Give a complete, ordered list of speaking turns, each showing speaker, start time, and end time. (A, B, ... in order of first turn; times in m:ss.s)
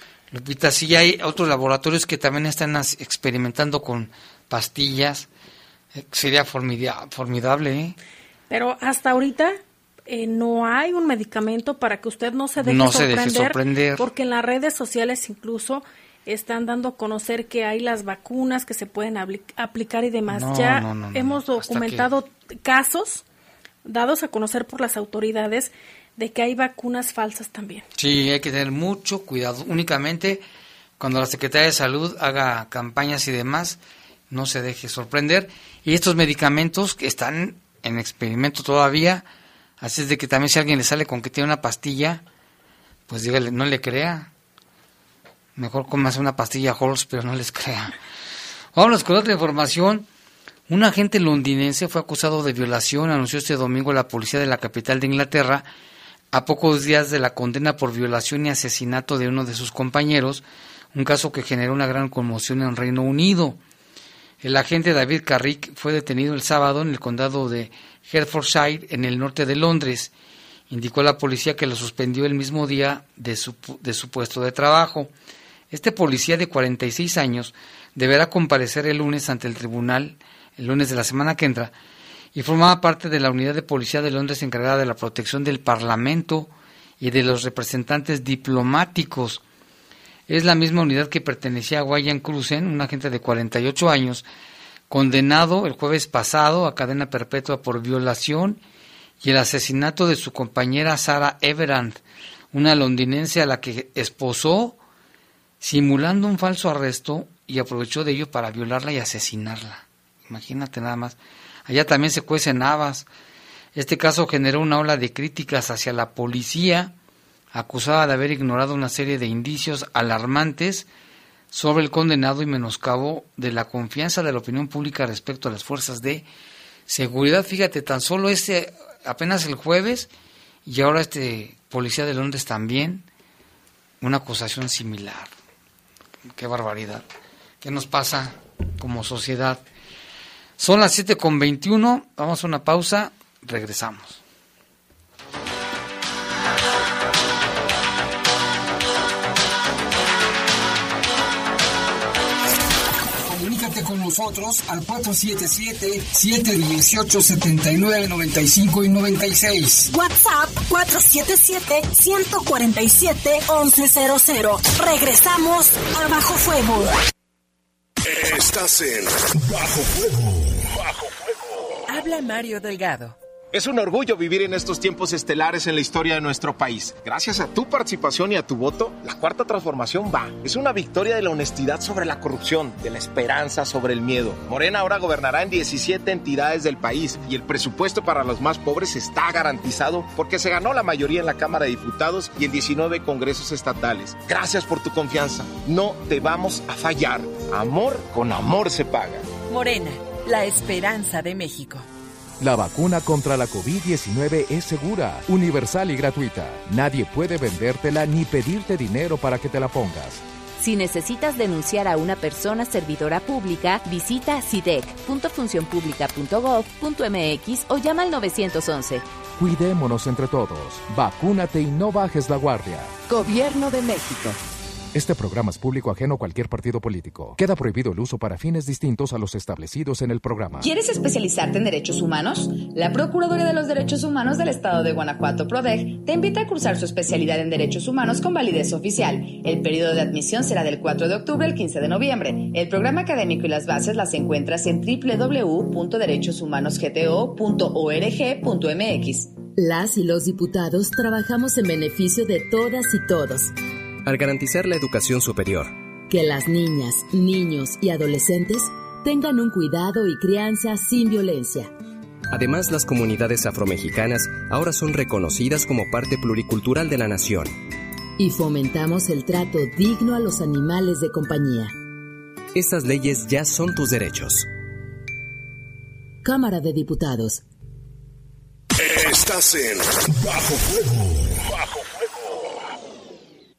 0:00.3-0:05.3 A
0:06.0-0:08.0 A
0:08.5-0:09.5 B
0:10.1-0:23.2 B
0:12.6-0:14.1 A
0:20.3-0:22.1 A
0:23.8-0:27.8 B
0:28.0-0:30.4 A
0:31.0-0:33.8 A
0:34.3-0:39.2 A
0:39.8-0:42.2 A
0:43.1-0:44.3 A
0:45.6-0:47.9 A
0:48.7-0:50.0 A
0:50.7-0:55.7 A
0:56.3-1:03.6 A
1:04.4-1:10.1 A
1:10.7-1:15.1 A
1:15.7-1:21.7 A
1:22.3-1:29.4 A
1:30.3-1:34.2 A
1:34.9-1:38.6 A
1:39.2-1:42.0 A
1:42.5-1:44.8 A
1:45.6-1:53.1 A
1:53.7-1:56.9 A
1:57.5-2:00.8 A
2:01.5-2:06.2 A
2:06.9-2:10.1 A
2:10.6-2:13.0 A
2:14.0-2:15.3 A
2:16.3-2:17.0 A
2:17.6-2:19.6 A
2:20.6-2:24.2 A
2:33.3-2:39.9 C
2:39.9-2:46.9 D
2:48.0-2:51.8 E
2:51.9-2:53.2 F
2:53.5-3:19.3 G
3:19.4-3:21.9 F
3:22.4-3:30.2 H
3:30.6-3:39.0 I
3:39.4-3:42.9 H
3:43.1-3:44.4 I
3:44.9-3:50.7 H
3:50.6-4:09.4 J
4:09.5-4:13.5 K
4:14.0-4:15.8 L
4:16.1-4:21.7 K
4:22.3-4:27.5 L
4:28.2-4:31.7 K
4:32.5-4:34.5 L
4:36.2-4:37.4 K
4:38.7-4:42.6 E